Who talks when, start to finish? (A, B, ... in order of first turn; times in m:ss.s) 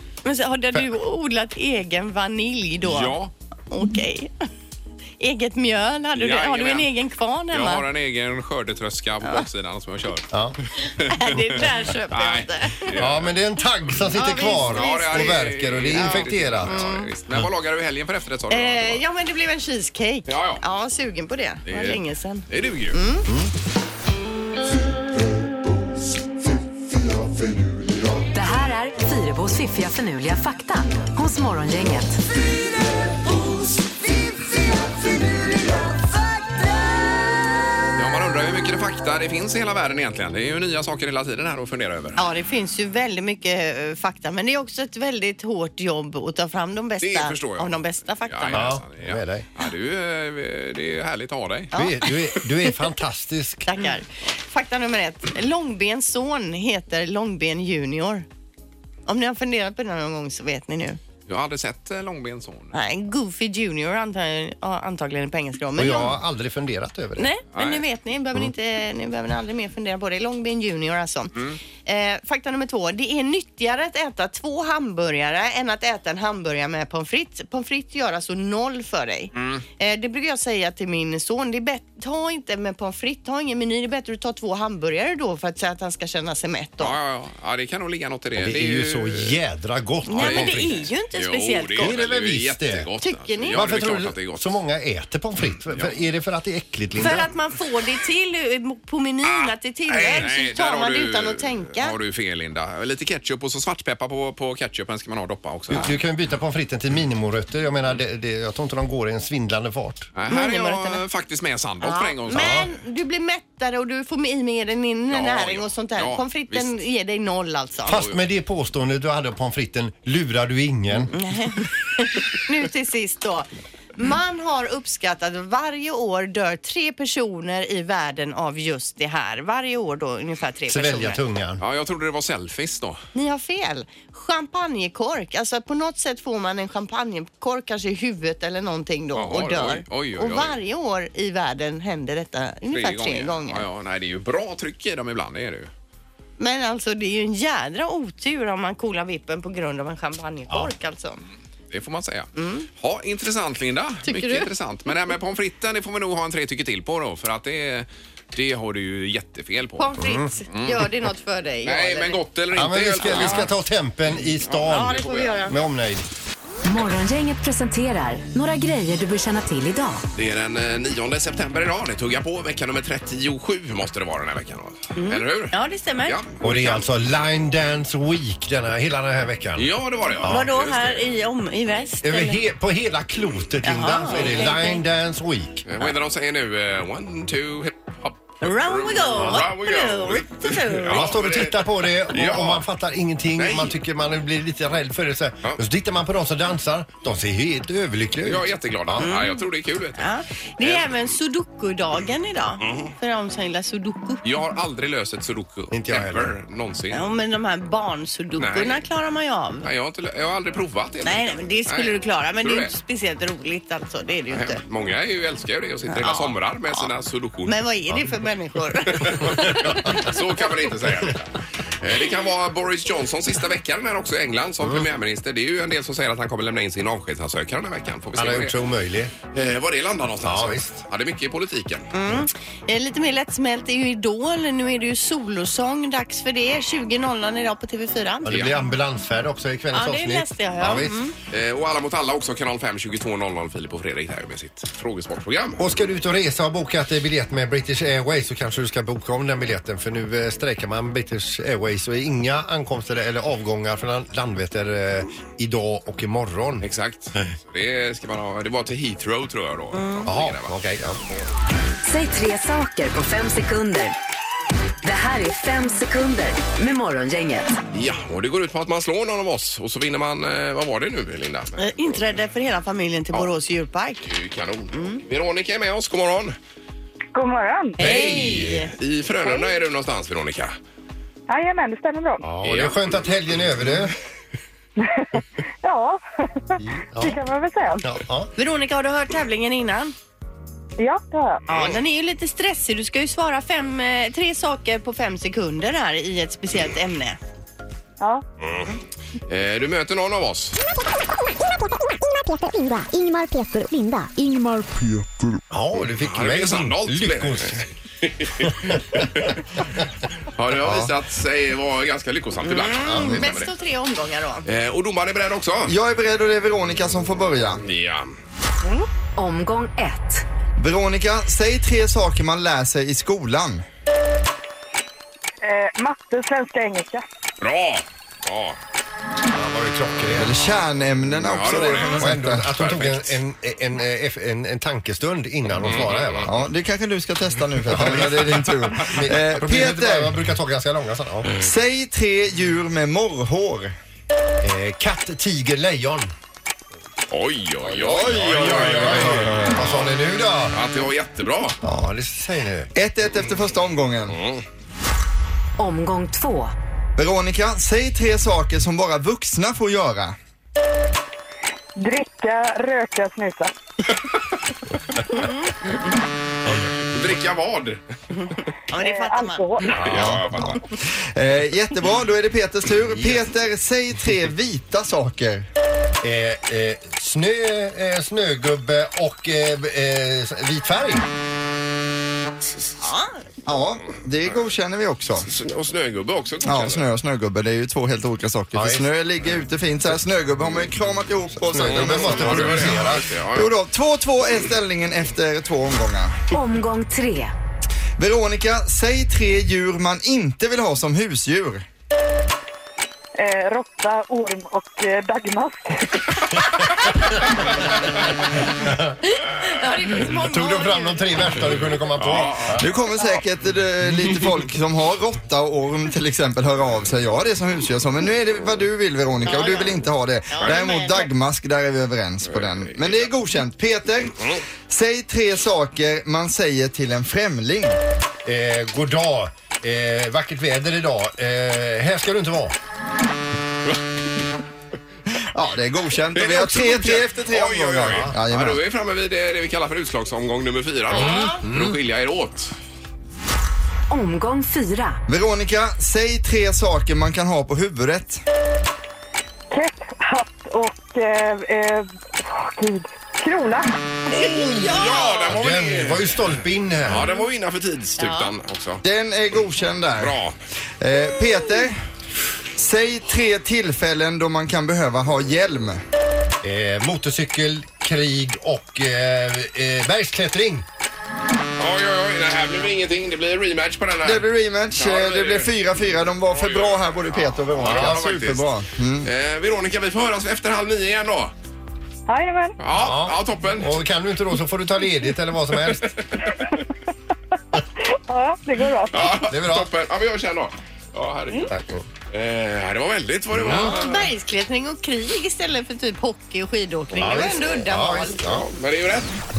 0:00.2-0:03.2 A
0:02.8-0:03.3 B
0:03.7-0:04.5 A
0:05.2-0:07.8 A
0:06.2-0:06.9 B
0:07.5-0:10.3 B
0:10.3-0:10.6 C
0:10.8-0:13.4 B
0:11.0-0:13.0 A
0:13.0-0:16.8 C
0:14.1-0:15.4 A
0:14.5-0:19.0 B
0:16.0-0:17.1 A
0:18.5-0:23.3 A
0:20.3-0:20.6 B
0:21.7-0:23.0 B
0:28.3-0:32.2 D
0:37.9-0:42.2 B
0:42.2-0:48.7 A
0:47.0-0:51.7 B
0:48.5-0:49.4 C
0:51.7-0:52.1 A
0:51.7-0:53.7 C
0:53.7-0:58.2 A
0:59.1-1:01.0 A
1:01.3-1:02.8 B
1:02.7-1:06.1 A
1:05.8-1:07.3 C
1:07.2-1:11.3 A
1:07.5-1:07.8 B
1:11.8-1:27.0 A
1:19.3-1:19.6 B
1:26.8-1:29.4 B
1:28.4-1:30.9 C
1:30.1-1:32.0 A
1:30.2-1:34.5 B
1:31.8-1:32.9 C
1:33.0-1:33.6 A
1:33.5-1:37.3 C
1:35.7-1:35.9 B
1:37.0-1:42.0 A
1:39.2-1:45.9 B
1:45.7-1:50.1 C
1:50.1-1:52.6 B
1:50.3-1:51.0 A
1:51.8-1:58.0 A
1:52.3-1:52.7 C
1:55.1-1:56.8 B
1:57.9-2:01.2 C
1:57.9-1:58.2 B
2:01.1-2:11.2 A
2:10.7-2:11.6 C
2:11.6-2:13.0 B
2:13.1-2:23.7 A
2:19.1-2:20.6 B
2:22.7-2:25.7 B
2:26.4-2:31.2 A
2:31.7-2:40.9 B
2:32.4-2:32.7 A
2:34.0-2:34.5 A
2:39.8-2:42.2 A
2:40.0-2:40.3 C
2:41.6-2:43.5 B
2:42.5-2:46.0 C
2:43.0-2:43.4 A
2:44.4-2:45.4 B
2:44.7-2:45.6 A
2:46.6-2:50.0 D
2:50.1-2:56.9 B
2:55.0-2:56.2 A
2:56.4-2:59.7 C
2:59.6-3:01.0 B
3:00.3-3:02.4 A
3:02.0-3:05.7 C
3:03.6-3:04.8 A
3:04.2-3:04.5 B
3:05.7-3:12.7 B
3:08.4-3:11.1 A
3:10.9-3:19.0 C
3:13.4-3:13.8 B
3:18.2-3:21.1 B
3:19.0-3:19.4 A
3:20.0-3:24.2 A
3:22.6-3:23.0 B
3:24.2-3:27.0 B
3:25.7-3:26.3 C
3:26.9-3:29.7 A
3:28.4-3:28.8 B
3:29.6-3:32.7 B
3:31.0-3:34.6 A
3:34.3-3:37.6 B
3:35.9-3:36.8 A
3:37.5-3:39.9 A
3:38.9-3:48.5 B
3:39.7-3:39.9 C
3:48.2-3:49.1 C
3:49.3-3:51.9 B
3:50.2-3:50.8 C
3:51.9-3:58.5 A
3:58.2-4:01.0 C
3:58.2-3:58.6 B
3:59.7-4:01.2 A
4:01.3-4:05.7 B
4:05.6-4:16.7 C
4:16.6-4:20.6 B
4:19.8-4:20.0 A
4:20.0-4:21.0 C
4:21.8-4:23.9 D
4:24.8-4:27.5 D
4:27.7-4:32.0 B
4:31.6-4:34.1 A
4:34.0-4:36.4 B
4:34.7-4:35.0 A
4:37.1-4:37.9 E
4:37.8-4:38.7 A
4:37.8-4:40.6 B
4:37.9-4:38.5 C
4:41.3-4:42.2 E
4:42.2-4:44.0 C
4:42.4-4:42.9 B
4:44.8-4:47.8 E
4:46.6-4:47.2 C
4:47.8-4:48.3 C
4:48.4-4:49.9 A
4:50.8-4:51.4 E
4:51.5-4:51.8 B
4:51.5-4:57.2 A
4:58.4-4:58.7 B
4:59.3-5:00.6 B
5:02.0-5:05.0 F
5:05.5-5:07.7 C
5:06.0-5:09.4 B
5:08.5-5:09.0 C
5:10.4-5:13.5 B
5:12.5-5:14.5 A
5:12.9-5:13.3 C
5:14.4-5:15.7 B
5:15.6-5:17.6 G
5:17.6-5:18.2 B
5:19.2-5:20.2 D
5:20.6-5:23.6 G
5:25.4-5:27.0 E
5:27.4-5:28.6 B
5:29.3-5:30.5 C
5:30.2-5:32.5 G
5:31.2-5:33.2 B
5:31.5-5:36.3 C
5:35.5-5:36.3 B
5:36.2-5:40.2 G
5:37.7-5:41.4 C
5:37.9-5:38.9 B
5:41.3-5:43.7 G
5:44.4-5:46.1 C
5:47.1-5:49.9 B
5:47.8-5:49.4 G
5:48.3-5:50.6 C
5:50.5-5:51.6 B
5:51.6-5:52.7 C
5:52.8-5:54.2 G
5:54.1-5:54.4 B
5:55.6-5:56.5 D
5:57.0-6:00.2 G
6:01.8-6:03.5 E
6:05.1-6:05.5 A
6:06.8-6:07.8 B
6:08.1-6:09.6 A
6:08.8-6:09.8 E
6:09.7-6:10.6 B
6:09.9-6:10.6 G
6:09.9-6:10.2 C
6:11.1-6:15.5 G
6:16.0-6:21.0 C
6:22.8-6:23.1 A
6:23.5-6:25.3 G
6:25.2-6:26.8 B
6:26.4-6:32.8 G
6:28.5-6:28.9 C
6:31.4-6:33.1 C
6:31.6-6:33.5 B
6:33.3-6:36.1 G
6:36.3-6:37.3 D
6:38.0-6:41.6 G
6:43.2-6:46.7 E
6:48.4-6:49.0 C
6:49.1-6:51.0 A
6:50.1-6:52.6 C
6:52.0-6:52.7 B
6:52.6-7:04.2 G
6:59.2-7:01.1 A
7:02.2-7:03.1 B
7:04.7-7:07.8 G
7:08.2-7:12.5 C
7:15.3-7:18.6 G
7:16.1-7:22.6 B
7:17.9-7:18.1 C
7:20.9-7:21.4 A
7:21.5-7:21.8 C
7:23.9-7:25.0 D
7:25.1-7:28.2 G
7:29.5-7:33.7 E
7:34.1-7:35.3 A
7:34.5-7:38.8 B
7:35.3-7:37.0 C
7:38.0-7:38.3 A
7:38.8-7:40.2 G
7:40.0-7:40.4 B
7:40.8-7:41.8 G
7:42.6-7:45.8 G
7:46.4-7:50.6 C
7:51.6-7:55.5 B
7:54.0-7:59.1 G
7:56.3-7:58.5 B
7:57.6-7:58.1 C
7:59.0-8:01.3 B
8:02.1-8:02.6 E
8:02.6-8:03.8 B
8:02.8-8:06.2 C
8:07.9-8:09.3 E
8:08.9-8:11.6 B
8:09.1-8:09.7 C
8:11.5-8:11.8 C
8:12.1-8:14.1 B
8:13.4-8:13.7 C
8:13.5-8:18.3 A
8:17.0-8:17.6 B
8:17.0-8:18.5 C
8:18.2-8:19.1 B